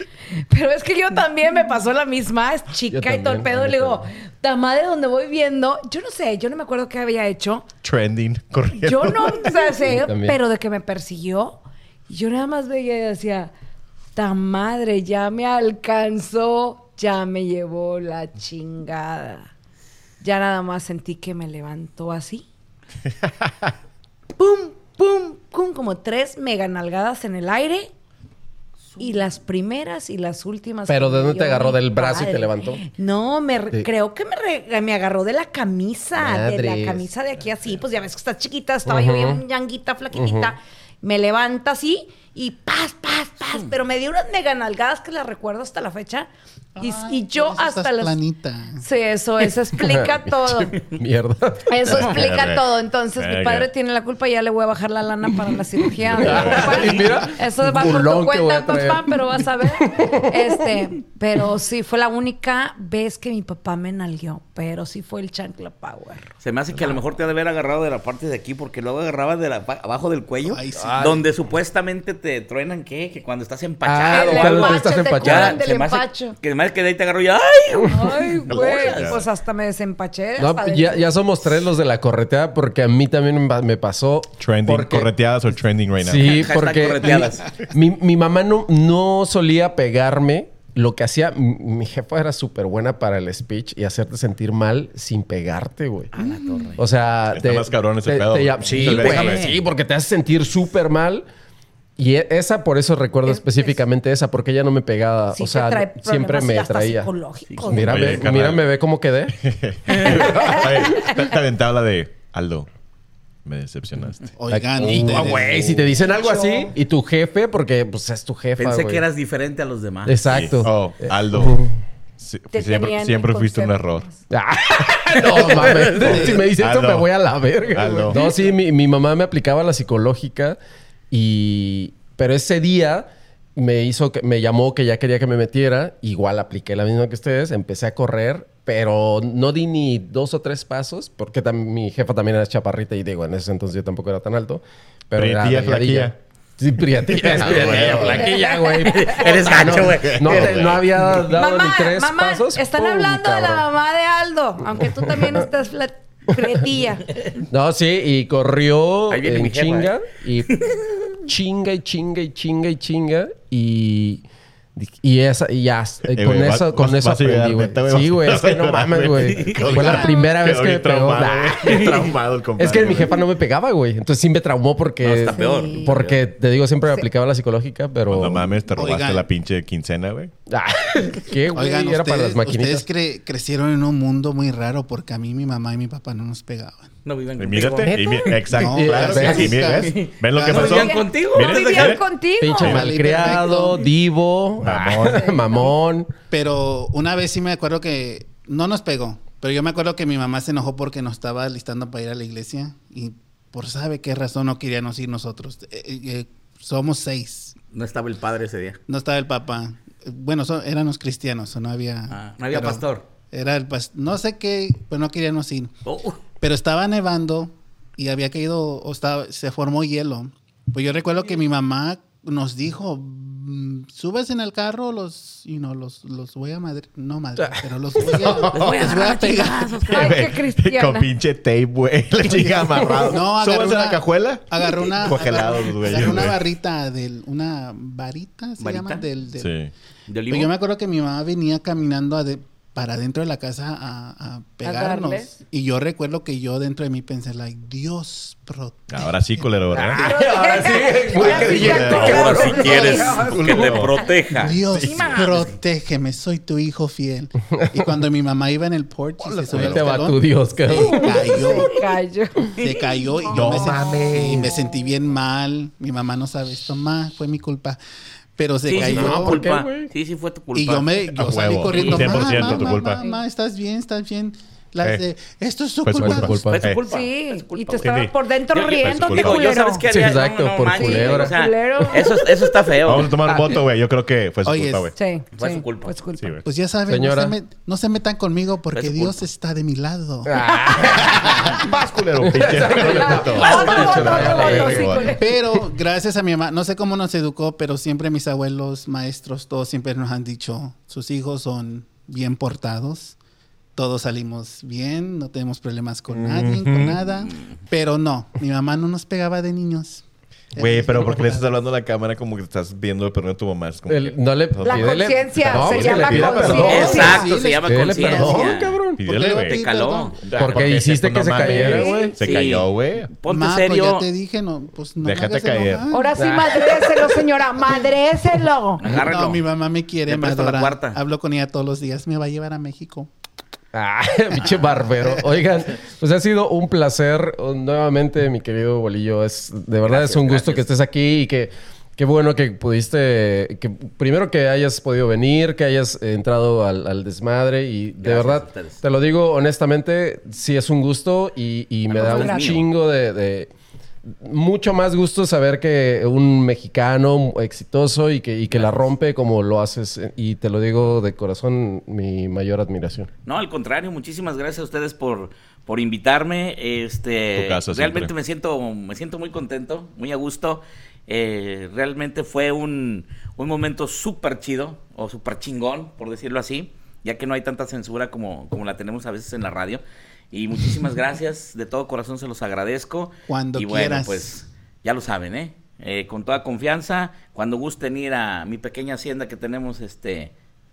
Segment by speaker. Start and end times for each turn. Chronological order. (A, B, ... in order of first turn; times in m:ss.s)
0:00.3-0:07.7 A
0:02.9-0:04.0 B
0:07.8-0:09.6 C
0:08.7-0:13.5 A
0:09.8-0:10.4 B
0:14.1-0:19.5 A
0:20.2-0:22.5 A
0:24.4-0:27.9 A
0:28.9-0:29.2 D
0:29.0-0:48.2 A
0:30.9-0:32.8 B
0:36.2-0:37.1 B
0:38.8-0:39.4 B
0:40.1-0:40.5 B
0:43.4-0:43.7 D
0:46.8-0:48.8 E
0:48.8-0:50.8 A
0:49.8-0:52.1 B
0:51.7-1:06.3 A
0:51.9-0:53.7 C
0:56.0-0:57.0 C
0:56.2-0:59.2 B
0:59.8-1:00.5 B
1:06.4-1:19.2 D
1:10.4-1:11.2 E
1:10.8-1:11.2 B
1:13.8-1:15.6 B
1:13.9-1:16.4 A
1:17.9-1:21.2 A
1:18.5-1:19.2 C
1:20.4-1:25.1 B
1:24.4-1:26.4 C
1:26.0-1:36.1 B
1:26.2-1:27.5 D
1:36.1-1:36.8 D
1:36.2-1:36.6 A
1:36.8-1:41.2 B
1:37.3-1:39.5 C
1:38.7-1:39.6 D
1:42.0-1:47.1 B
1:43.2-1:43.8 A
1:45.3-1:48.1 A
1:47.5-1:47.8 D
1:47.6-1:49.4 B
1:47.8-1:48.7 C
1:49.3-1:52.7 C
1:49.9-1:50.4 D
1:49.9-1:50.9 B
1:50.2-1:51.1 A
1:53.4-1:54.3 C
1:54.4-1:55.9 E
1:54.5-1:59.0 B
1:54.9-1:55.9 C
1:56.0-1:56.7 A
1:58.6-2:00.2 D
2:00.0-2:01.8 B
2:00.3-2:01.6 C
2:02.2-2:04.1 C
2:02.5-2:04.2 A
2:04.3-2:10.6 B
2:05.1-2:06.1 D
2:05.2-2:06.5 E
2:05.9-2:07.1 C
2:07.7-2:08.3 C
2:11.1-2:33.6 B
2:25.1-2:26.2 C
2:27.2-2:28.3 C
2:27.2-2:30.6 D
2:28.1-2:29.3 A
2:29.3-2:31.3 C
2:31.2-2:37.0 A
2:35.0-2:35.4 B
2:37.5-2:40.7 B
2:39.1-2:40.0 D
2:40.5-2:41.1 D
2:41.2-2:44.2 B
2:44.8-2:58.5 B
2:46.1-2:53.2 C
2:49.2-2:49.7 D
2:49.6-2:50.1 E
2:51.6-2:52.1 D
2:55.0-2:56.1 D
2:55.3-2:56.2 A
2:58.1-3:00.3 C
2:58.8-2:59.2 E
3:00.5-3:02.9 B
3:01.5-3:06.9 E
3:07.0-3:08.4 D
3:07.4-3:12.0 C
3:07.8-3:09.7 B
3:08.5-3:10.9 E
3:09.2-3:12.0 D
3:10.6-3:12.7 A
3:12.4-3:16.1 B
3:12.6-3:12.9 C
3:12.6-3:13.8 E
3:14.6-3:15.2 C
3:14.6-3:15.0 E
3:15.0-3:15.7 A
3:16.3-3:27.6 E
3:27.7-3:28.8 D
3:28.9-3:35.7 E
3:32.1-3:33.0 D
3:35.8-3:36.2 D
3:36.4-3:49.8 E
3:47.4-3:48.0 B
3:48.0-3:48.8 C
3:48.5-3:50.2 D
3:49.8-3:56.4 C
3:49.9-3:51.1 A
3:52.2-3:59.6 E
3:58.6-3:59.0 D
3:59.4-3:59.7 C
4:00.1-4:00.5 D
4:00.3-4:09.4 E
4:04.6-4:05.3 A
4:08.9-4:10.1 C
4:09.7-4:13.8 B
4:09.9-4:13.3 A
4:11.1-4:14.0 C
4:11.6-4:15.6 D
4:14.3-4:21.8 E
4:19.2-4:20.0 C
4:19.5-4:21.4 B
4:20.8-4:23.2 A
4:22.6-4:27.8 E
4:23.3-4:24.6 C
4:28.4-4:29.4 E
4:28.6-4:30.9 D
4:28.7-4:29.9 B
4:30.5-4:36.4 E
4:31.1-4:33.0 C
4:31.7-4:32.6 D
4:33.0-4:33.2 A
4:34.8-4:35.0 C
4:35.8-4:36.8 C
4:36.0-4:36.7 B
4:36.4-4:43.6 D
4:36.9-4:39.8 A
4:37.8-4:38.1 C
4:38.8-4:39.5 C
4:39.8-4:41.3 B
4:40.7-4:42.7 A
4:42.8-4:45.0 C
4:44.4-4:44.9 E
4:45.0-4:46.4 A
4:45.3-4:45.9 D
4:46.2-4:46.4 C
4:46.4-4:51.6 E
4:46.8-4:47.4 B
4:48.7-4:49.2 D
4:50.2-4:51.6 B
4:50.8-4:55.2 C
4:52.2-4:55.6 B
4:52.8-4:55.2 A
4:55.1-5:03.2 E
5:03.8-5:10.0 E
5:06.1-5:07.0 C
5:07.3-5:07.6 D
5:10.5-5:11.5 E
5:10.6-5:17.1 C
5:13.9-5:19.0 B
5:14.6-5:17.3 A
5:16.3-5:18.5 E
5:16.4-5:20.3 D
5:19.0-5:19.6 C
5:19.0-5:20.2 E
5:20.2-5:23.1 C
5:20.4-5:22.2 B
5:21.4-5:22.4 A
5:22.2-5:24.1 D
5:23.3-5:26.1 E
5:25.0-5:25.9 C
5:25.9-5:28.8 A
5:26.2-5:27.2 B
5:28.8-5:29.4 D
5:28.9-5:33.1 E
5:30.1-5:31.0 D
5:33.7-5:53.5 B
5:39.8-5:40.7 D
5:48.0-5:48.8 D
5:51.9-5:52.6 D
5:51.9-5:52.6 A
5:54.0-6:03.1 B
5:58.5-5:58.9 D
6:03.2-6:30.3 D
6:07.3-6:08.1 C
6:23.3-6:24.3 E